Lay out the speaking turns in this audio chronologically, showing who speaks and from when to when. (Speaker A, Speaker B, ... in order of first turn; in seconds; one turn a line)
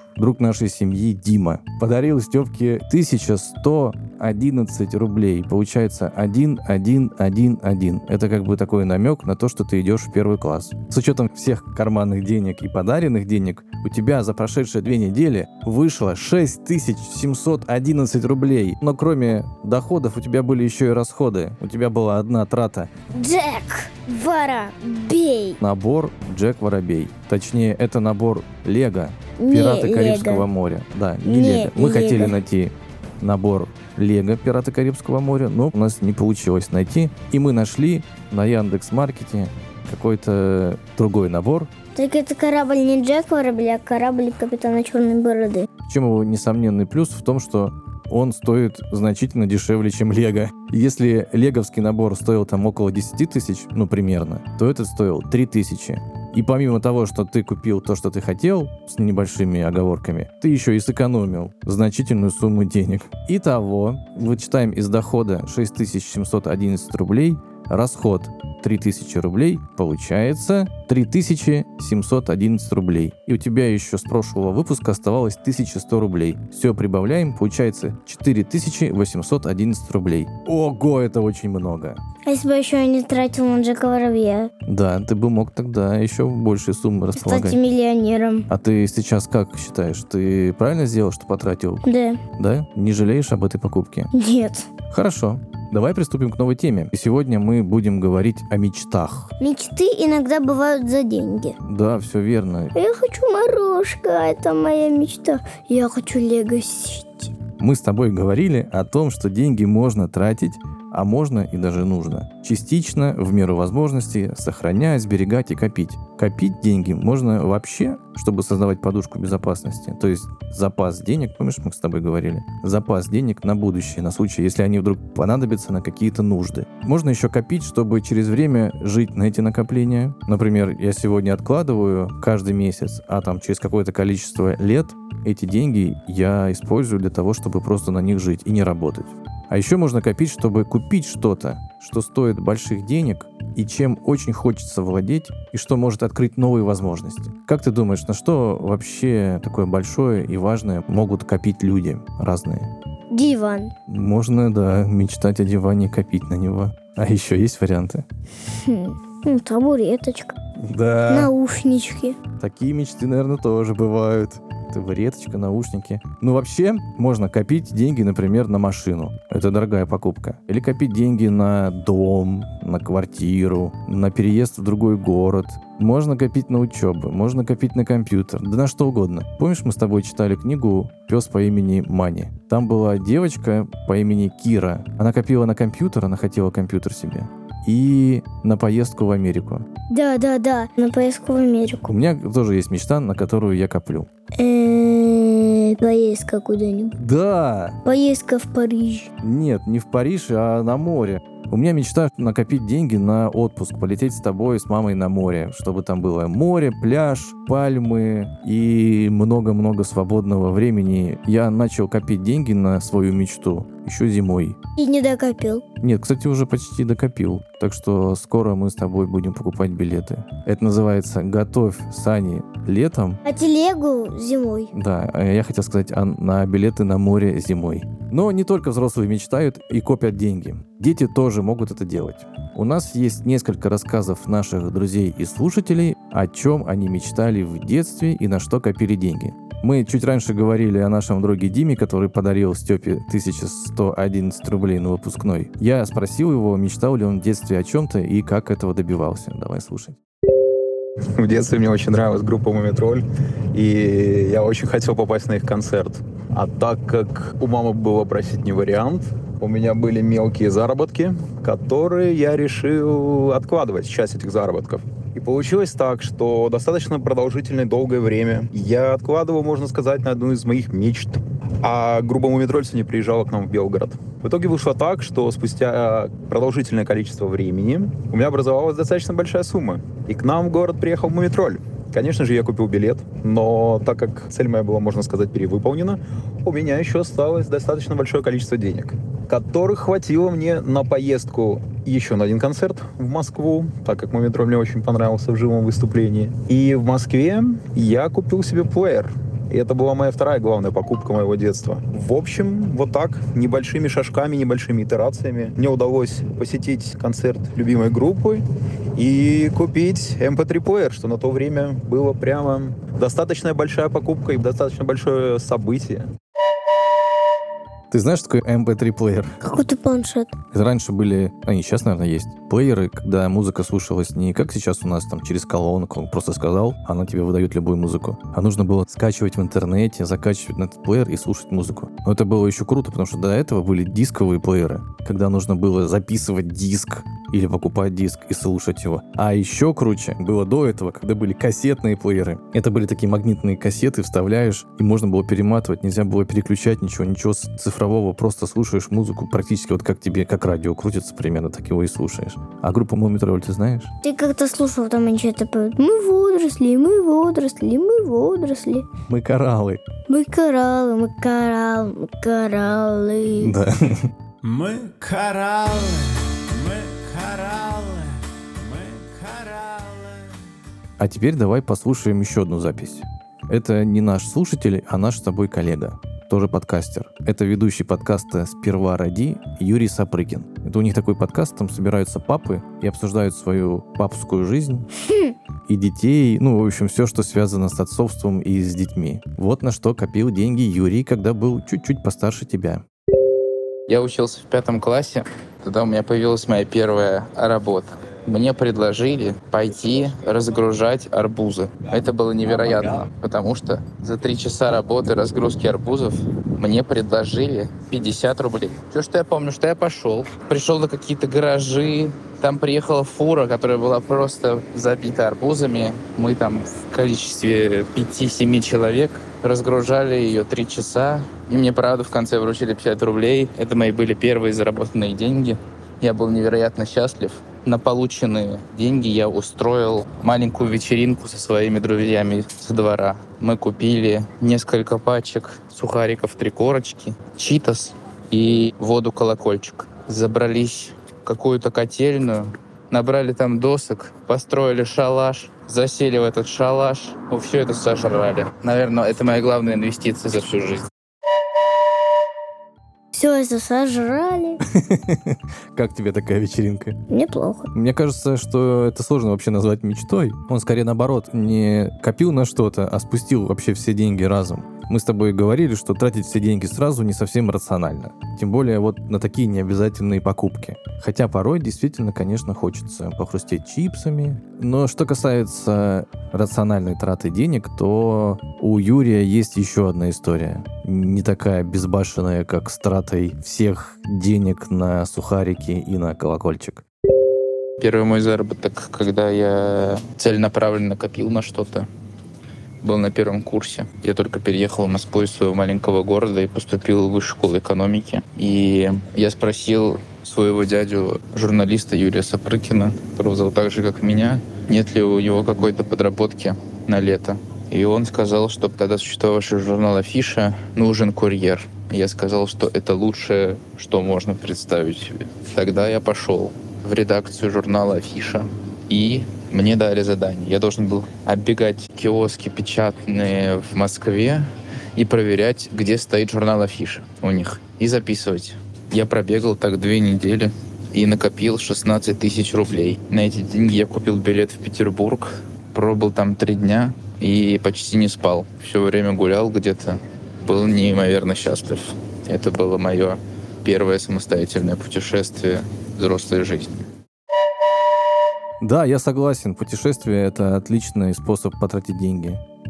Speaker A: 0.2-22.9
Speaker B: 23.1-25.6
Speaker A: 25.6-41.7
Speaker B: 29.4-30.4
Speaker B: 31.2-32.4
Speaker B: 42.0-45.7
Speaker A: 45.9-82.0
Speaker B: 82.2-84.5
Speaker A: 84.7-87.6
Speaker B: 87.2-88.5
Speaker A: 88.5-91.8
Speaker B: 91.8-92.2
Speaker A: 92.4-94.1
Speaker B: 94.1-94.7
Speaker A: 94.9-99.3
Speaker B: 99.4-101.6
Speaker A: 101.6-102.7
Speaker B: 102.8-107.3
Speaker A: 107.6-152.7
Speaker B: 153.1-153.7
Speaker A: 153.9-158.1
Speaker B: 158.5-160.4
Speaker A: 160.6-161.3
Speaker B: 161.1-162.2
Speaker A: 162.4-189.7
Speaker B: 189.9-191.9
Speaker A: 191.8-194.1
Speaker B: 194.4-197.0
Speaker A: 197.0-197.8
Speaker B: 197.8-199.1
Speaker A: 199.2-214.6
Speaker B: 214.8-215.7
Speaker A: 215.8-223.2
Speaker B: 223.2-224.7
Speaker A: 224.7-250.0
Speaker C: 251.2-308.4
Speaker C: 309.0-316.1
Speaker A: 317.9-319.4
Speaker B: 319.4-320.4
Speaker A: 320.5-353.9
Speaker B: 354.0-358.9
Speaker A: 359.1-359.9
Speaker B: 360.1-363.6
Speaker A: 363.4-364.1
Speaker D: 364.4-370.3
Speaker A: 371.0-384.9
Speaker B: 385.0-385.4
Speaker A: 385.7-392.9
Speaker E: 393.9-450.9
Speaker B: 453.1-454.6
Speaker A: 454.7-457.0
Speaker B: 457.1-457.7
Speaker A: 457.7-486.9
Speaker E: 487.8-491.9
Speaker E: 492.8-546.9
Speaker A: 548.6-552.4